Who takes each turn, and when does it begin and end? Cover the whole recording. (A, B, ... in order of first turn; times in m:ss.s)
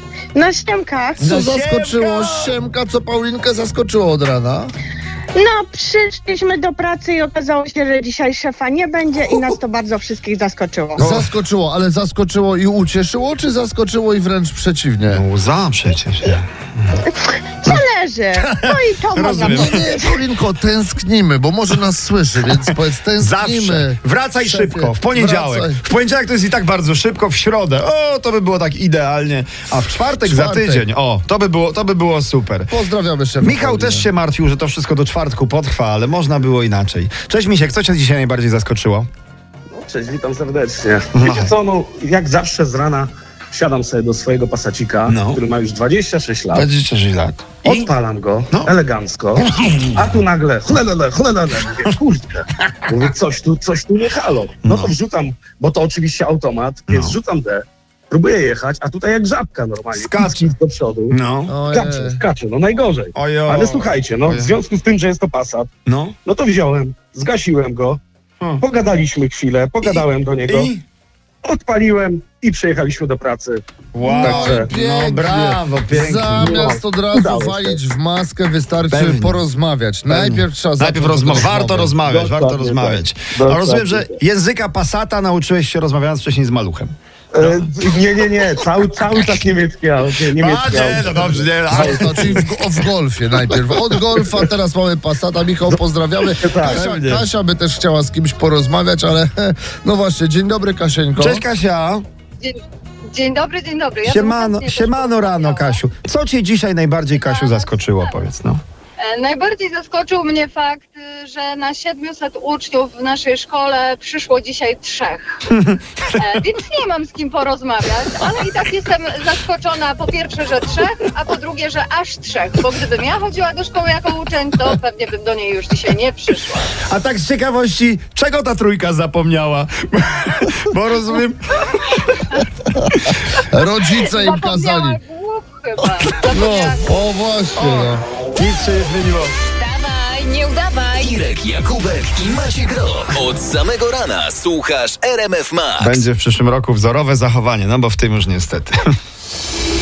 0:00.4-0:01.4 A
0:01.2-0:02.5 B
0:01.2-0:04.7 C
0:05.4-0:11.0 A
0:11.0-0:15.2 C
0:11.0-0:11.3 B
0:15.1-0:17.0 B
0:17.6-0:20.1 A
0:18.4-0:20.0 B
0:19.4-0:25.8 C
0:23.2-0:32.7 B
0:30.2-0:30.9 C
0:32.7-0:34.1 C
0:33.4-0:39.1 B
0:39.7-0:46.7 D
0:41.1-0:41.5 B
0:45.1-0:45.4 B
0:46.5-0:47.9 B
0:47.6-1:01.1 D
0:49.4-0:50.2 B
0:54.6-0:54.9 B
0:56.9-0:57.2 B
1:00.0-1:00.5 B
1:01.1-1:01.5 B
1:01.5-1:02.2 C
1:01.7-1:05.7 D
1:03.2-1:04.6 B
1:05.9-1:06.2 B
1:06.2-1:08.0 D
1:08.6-1:10.7 D
1:09.8-1:10.8 B
1:11.4-1:14.7 D
1:13.9-1:16.7 B
1:14.0-1:22.0 C
1:16.4-1:17.8 D
1:18.9-1:19.4 B
1:20.1-1:27.7 B
1:22.0-1:24.1 D
1:27.4-1:32.3 D
1:30.4-1:32.4 B
1:31.7-1:41.4 C
1:36.4-1:36.8 D
1:36.6-1:37.3 B
1:41.2-1:42.0 B
1:42.4-1:45.8 E
1:44.1-1:48.6 B
1:47.2-1:48.2 E
1:49.0-1:55.4 E
1:55.5-1:55.8 B
1:56.2-2:06.6 E
2:06.9-2:12.2 B
2:13.5-2:15.0 C
2:14.0-2:17.0 E
2:16.2-2:18.0 C
2:17.6-2:19.3 B
2:19.6-2:21.4 E
2:21.0-2:26.1 F
2:25.8-2:28.9 B